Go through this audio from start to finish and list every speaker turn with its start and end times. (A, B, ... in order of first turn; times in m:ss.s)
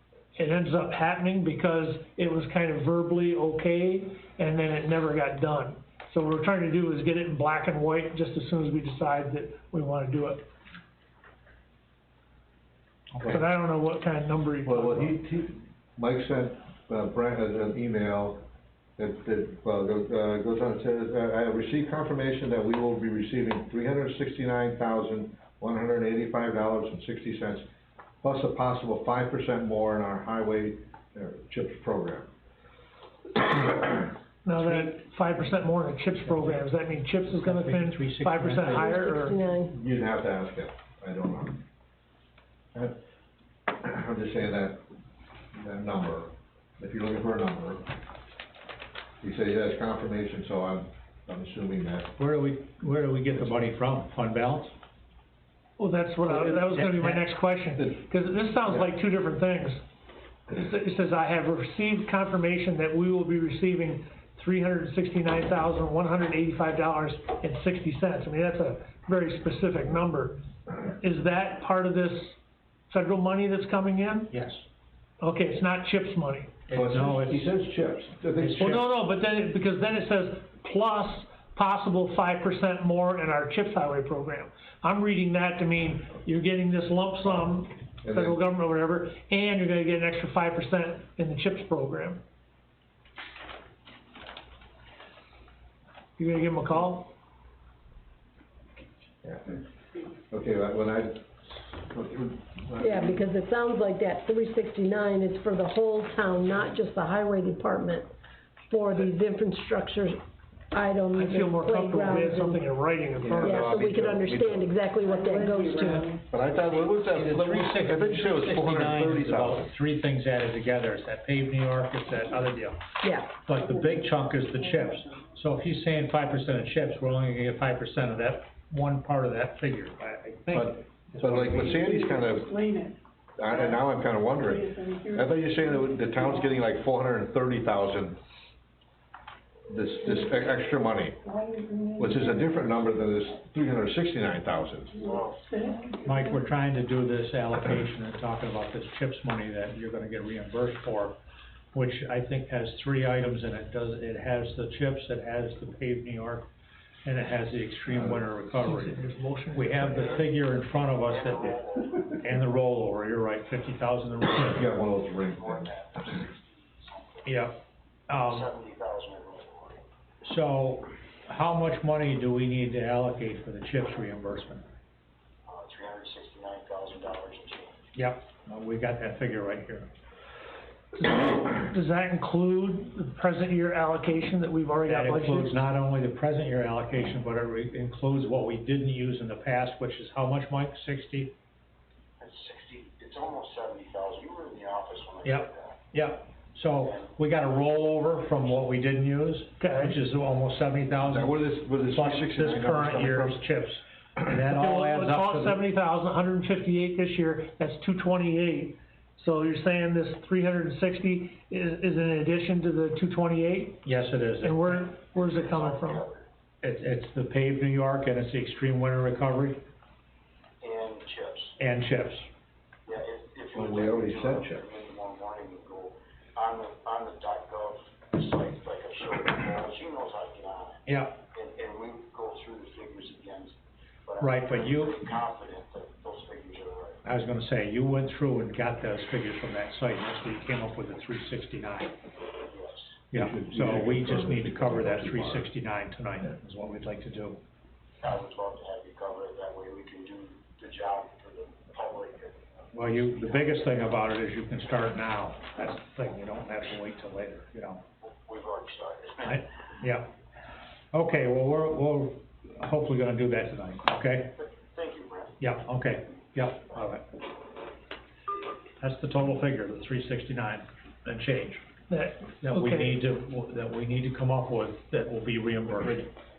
0:00.4-0:10.4 A
0:13.1-0:13.4 B
0:13.3-0:15.2 A
0:14.7-0:18.4 C
0:19.0-0:27.7 C
0:28.2-0:32.3 C
0:33.5-0:34.0 C
0:34.4-0:39.4 A
0:34.5-0:35.0 B
0:36.3-0:36.7 B
0:37.2-0:39.0 B
0:38.6-0:39.7 D
0:39.7-0:41.6 C
0:43.7-0:44.8 C
0:45.6-0:47.8 C
0:49.2-0:52.1 C
0:52.2-0:54.7 B
0:55.8-0:59.8 A
0:56.3-0:57.2 B
1:00.5-1:12.4 A
1:12.9-1:14.4 A
1:14.3-1:14.6 B
1:15.2-1:16.6 A
1:16.7-1:17.5 B
1:16.7-1:18.8 C
1:18.4-1:18.8 B
1:18.6-1:32.2 A
1:28.0-1:28.4 C
1:36.2-1:37.1 A
1:39.2-1:39.6 C
1:40.3-1:43.2 C
1:42.8-1:48.1 D
1:48.7-1:50.2 D
1:50.7-1:52.6 D
1:51.1-1:53.9 A
1:53.2-1:54.7 C
1:53.4-1:56.1 D
1:55.2-1:56.2 E
1:56.3-1:59.7 C
1:56.8-2:11.7 B
2:03.0-2:03.3 D
2:10.5-2:12.5 C
2:11.6-2:16.6 E
2:13.4-2:18.2 C
2:19.7-2:21.2 C
2:21.2-2:22.8 E
2:22.0-2:25.0 C
2:24.9-2:26.4 E
2:25.0-2:25.5 F
2:26.0-2:31.2 B
2:31.7-2:36.5 B
2:37.0-2:39.0 B
2:37.9-2:38.2 C
2:38.6-2:40.2 A
2:39.5-2:44.7 B
2:40.0-2:40.3 F
2:40.8-2:42.0 F
2:44.4-2:45.6 C
2:45.2-2:47.5 F
2:47.2-2:47.6 B
2:48.1-2:48.5 B
2:48.1-2:49.8 F
2:50.2-2:54.7 B
2:55.5-2:57.9 F
2:58.0-2:59.9 B
3:01.0-3:05.6 A
3:04.9-3:11.3 B
3:12.2-3:15.8 F
3:15.2-3:25.6 B
3:19.6-3:19.9 A
3:21.0-3:23.4 C
3:24.4-3:33.8 A
3:33.8-3:35.0 B
3:34.4-3:36.1 A
3:35.2-3:36.3 F
3:36.6-3:39.6 B
3:40.6-3:41.5 F
3:41.6-3:42.3 B
3:42.9-3:57.0 F
3:43.5-3:44.6 C
3:50.9-3:51.2 B
3:54.2-3:55.0 B
3:57.0-4:02.0 B
4:02.5-4:02.9 F
4:03.1-4:07.4 B
4:03.1-4:05.5 C
4:08.0-4:13.8 F
4:12.7-4:17.8 B
4:18.0-4:19.4 F
4:19.2-4:20.1 B
4:20.9-4:24.3 B
4:24.4-4:25.4 F
4:25.4-4:27.0 B
4:28.8-4:31.6 B
4:31.9-4:33.0 A
4:32.4-4:36.1 B